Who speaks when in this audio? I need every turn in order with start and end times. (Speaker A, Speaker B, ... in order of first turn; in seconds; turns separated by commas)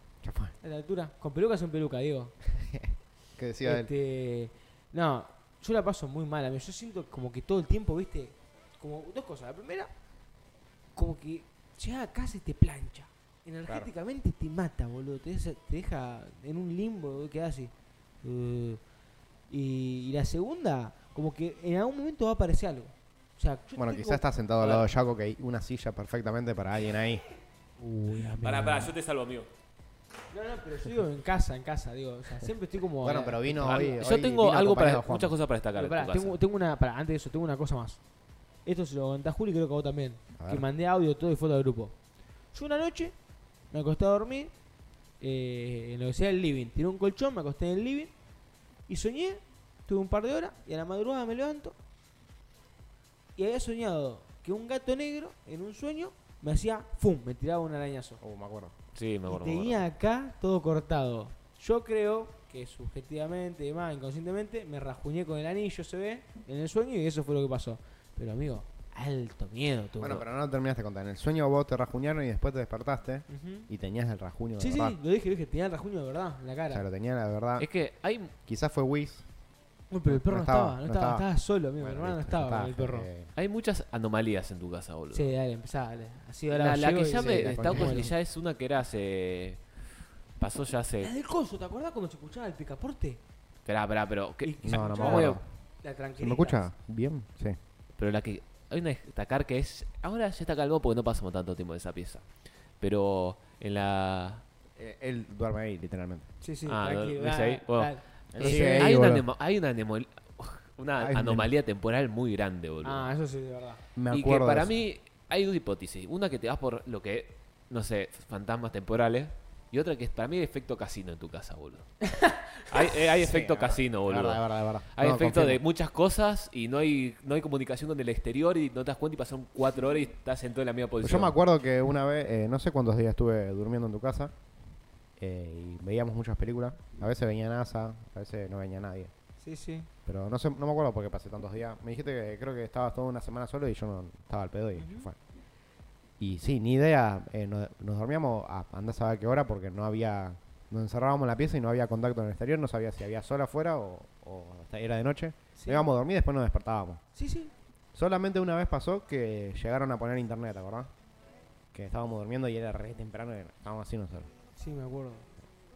Speaker A: 0.2-0.6, Speaker B: 0.6-2.3, Speaker A: 2.6-3.9, Speaker B: 3.6-9.9, Speaker B: 10.9-18.8, Speaker B: 19.5-24.9, Speaker A: 23.8-27.2, Speaker B: 27.8-28.9, Speaker C: 28.4-29.5, Speaker B: 30.3-34.0, Speaker A: 33.0-35.4, Speaker C: 33.6-36.4, Speaker B: 35.8-38.0, Speaker B: 38.6-42.0, Speaker A: 40.4-40.6, Speaker B: 42.5-43.1, Speaker B: 43.7-44.5, Speaker B: 45.2-48.1, Speaker B: 48.9-51.8, Speaker B: 53.4-58.2, Speaker A: 58.2-58.7, Speaker C: 58.9-59.8, Speaker B: 59.3-70.2, Speaker A: 70.0-75.0, Speaker B: 73.3-73.7, Speaker B: 74.6-76.8, Speaker A: 76.7-77.7, Speaker C: 77.6-78.3, Speaker A: 78.5-79.2, Speaker B: 79.9-83.1, Speaker A: 80.1-81.3, Speaker A: 81.8-83.3, Speaker C: 83.3-85.3, Speaker B: 85.1-88.1, Speaker C: 86.5-89.6, Speaker A: 87.2-88.1, Speaker C: 90.4-91.1, Speaker B: 91.0-93.2, Speaker C: 93.7-95.4, Speaker B: 94.4-96.7, Speaker A: 94.6-95.4, Speaker A: 96.2-97.6, Speaker C: 98.0-102.2, Speaker C: 102.8-104.4, Speaker A: 104.8-106.3, Speaker B: 106.4-108.9, Speaker C: 106.7-113.1, Speaker A: 108.3-109.2, Speaker A: 111.0-111.5, Speaker B: 112.8-113.8, Speaker A: 114.0-114.7, Speaker C: 114.1-121.9, Speaker B: 122.0-122.5, Speaker C: 122.7-131.3, Speaker A: 123.2-125.6, Speaker A: 131.0-134.3, Speaker A: 135.2-139.1, Speaker B: 139.4-139.9, Speaker A: 140.1-145.2, Speaker B: 144.8-145.1, Speaker A: 146.2-157.0, Speaker B: 155.6-155.9, Speaker B: 157.2-157.5, Speaker A: 157.9-160.9, Speaker A: 161.7-164.3, Speaker B: 164.6-165.3